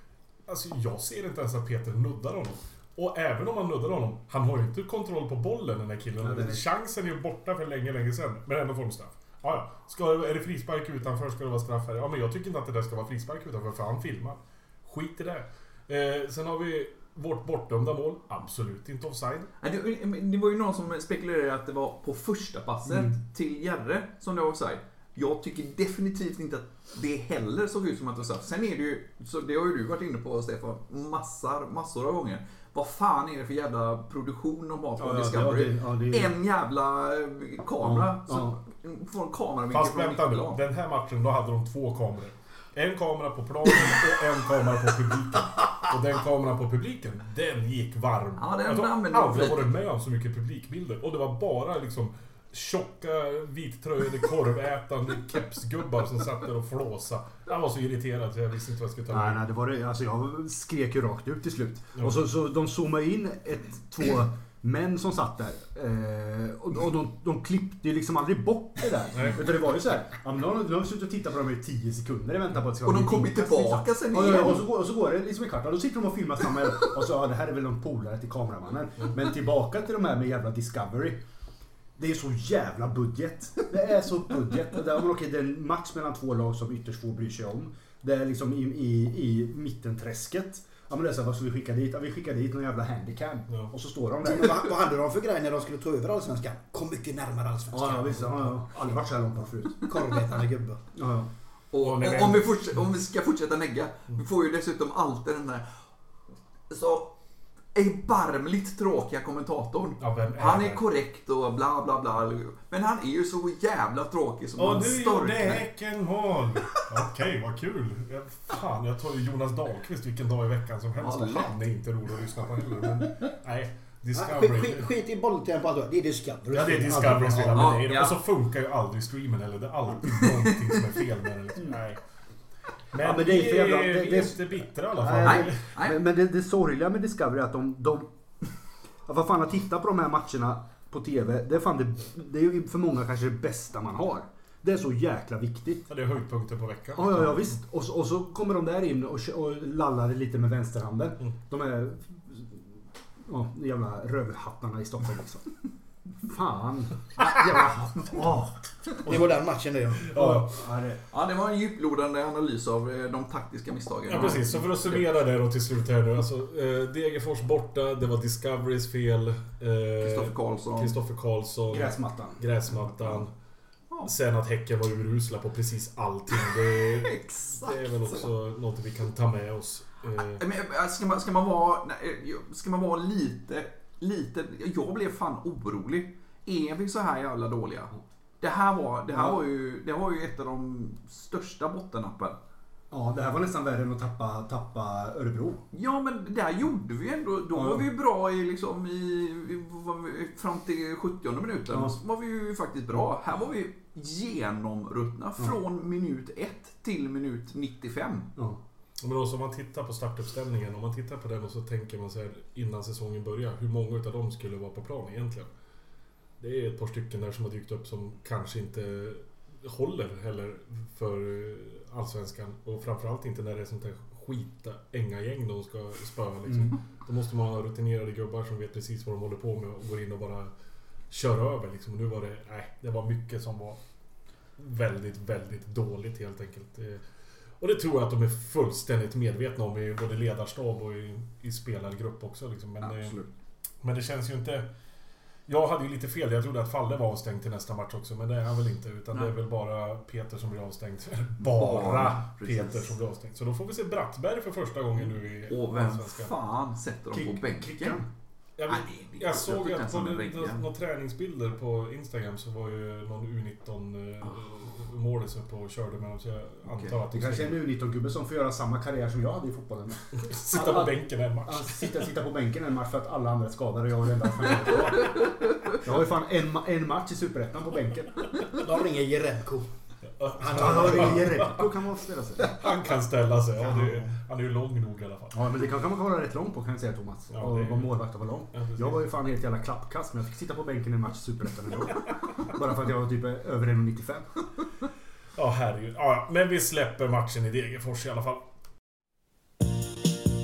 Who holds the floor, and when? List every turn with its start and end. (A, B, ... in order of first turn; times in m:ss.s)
0:00.4-0:19.5 A
0:06.2-0:06.6 B
0:19.6-0:40.6 C
0:22.9-0:23.1 B
0:35.0-0:36.4 B
0:37.8-0:38.6 B
0:39.7-0:59.4 A
0:48.4-0:49.7 C
0:59.1-1:21.2 B
1:09.1-1:09.4 A
1:12.8-1:14.7 C
1:22.0-1:34.7 B
1:34.2-1:38.7 D
1:37.7-1:39.8 B
1:39.8-1:40.8 D
1:40.9-1:41.3 B
1:41.7-1:45.6 C
1:41.8-1:42.6 A
1:46.7-1:47.2 C
1:47.7-1:55.6 C
1:50.0-1:50.8 A
1:54.6-2:04.9 A
2:01.0-2:01.5 C
2:04.1-2:07.5 D
2:06.5-2:12.0 A
2:06.8-2:07.8 B
2:07.5-2:08.2 C
2:12.9-2:15.6 A
2:12.9-2:18.1 B
2:15.2-2:16.0 C
2:19.0-2:25.9 B
2:25.9-2:27.5 A
2:26.9-2:35.5 B
2:36.2-2:38.6 B
2:39.0-2:40.1 D
2:39.0-2:39.3 A
2:40.0-2:40.6 A
2:40.1-2:41.0 B
2:41.1-2:45.1 C
2:44.0-2:53.3 A
2:50.0-2:50.9 C
2:51.7-2:52.4 B
2:54.0-3:00.4 A
2:56.3-2:58.3 C
3:00.2-3:12.4 C
3:09.1-3:09.4 B
3:12.9-3:15.6 B
3:15.7-3:28.3 C
3:17.5-3:17.8 B
3:21.7-3:22.0 B
3:29.0-3:35.5 A
3:36.4-3:50.5 A
3:51.1-3:53.8 A
3:54.6-3:57.0 A
3:57.6-4:03.2 A
4:02.8-4:03.3 C
4:03.8-4:04.7 A
4:05.5-4:16.3 A
4:11.4-4:12.9 C
4:15.3-4:18.0 C
4:17.1-4:18.1 B
4:18.6-4:27.6 A
4:18.7-4:20.6 C
4:27.1-4:35.2 B
4:30.1-4:32.0 A
4:34.5-4:35.0 A
4:35.7-4:38.4 B
4:38.5-4:39.7 D
4:40.1-4:41.7 A
4:40.4-4:41.4 D
4:40.4-4:42.5 B
4:42.4-4:45.4 A
4:45.3-4:54.3 B
4:47.3-4:48.0 A
4:48.5-4:49.0 A
4:55.4-4:58.4 A